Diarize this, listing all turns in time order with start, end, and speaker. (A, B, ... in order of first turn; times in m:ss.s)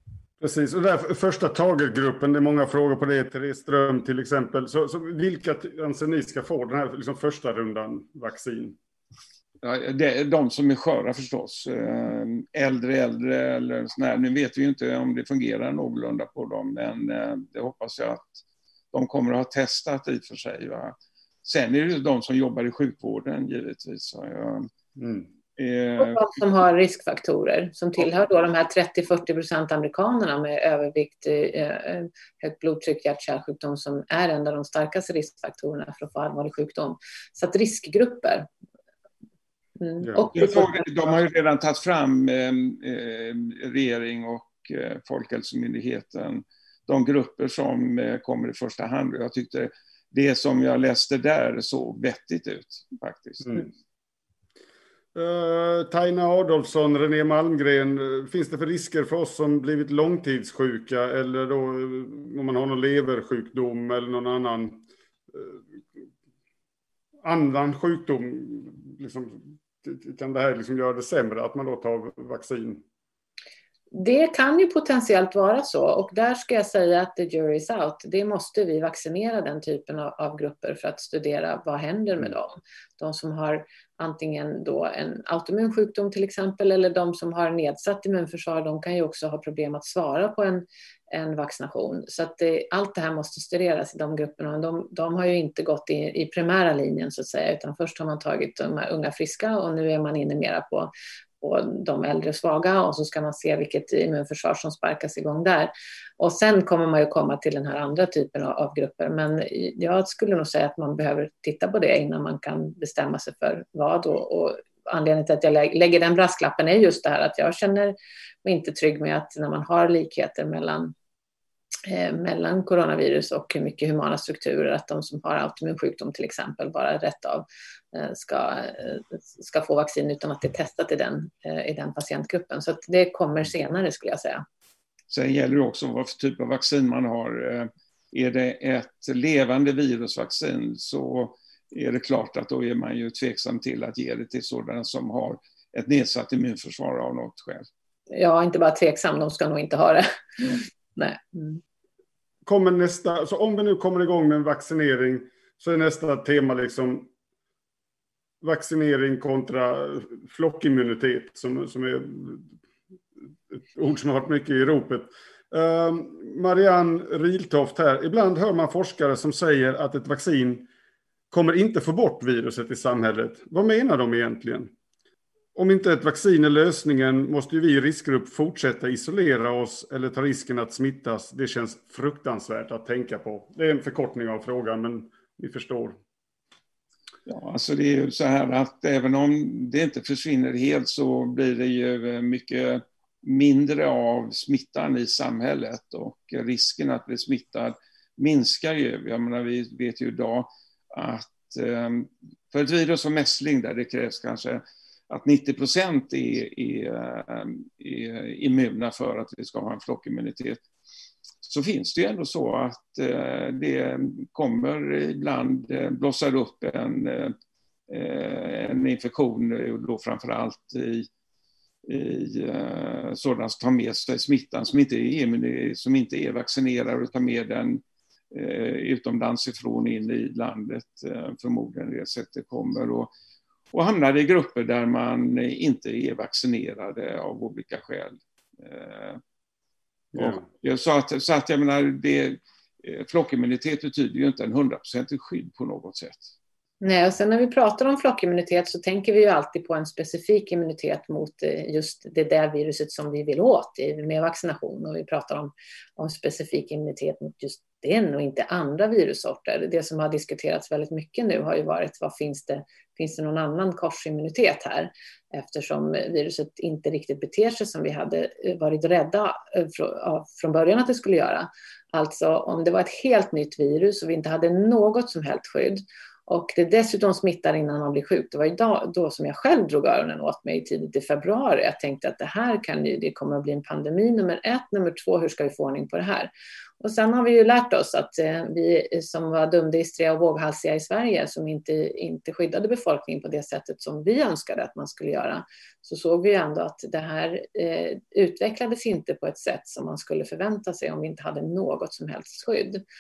0:00.4-0:08.8 A
0:09.6-0:24.7 B
0:25.0-0:25.2 A
0:25.6-0:26.3 B
0:26.0-0:38.5 C
0:39.8-0:40.9 C
0:40.0-0:40.3 A
0:40.3-0:53.7 B
0:55.1-1:05.6 A
1:07.2-1:12.8 A
1:13.9-2:00.9 C
2:01.9-2:14.4 C
2:15.1-2:27.7 B
2:28.1-2:31.6 C
2:32.4-2:37.1 A
2:38.4-2:42.5 A
2:43.5-2:50.7 A
2:51.3-2:54.7 A
2:55.5-3:06.0 A
3:07.2-3:30.6 B
3:31.4-3:37.3 B
3:37.9-3:41.1 B
3:41.8-3:53.1 B
3:53.7-3:59.2 B
4:00.1-4:00.4 A
4:00.1-4:06.3 B
4:06.8-5:02.8 C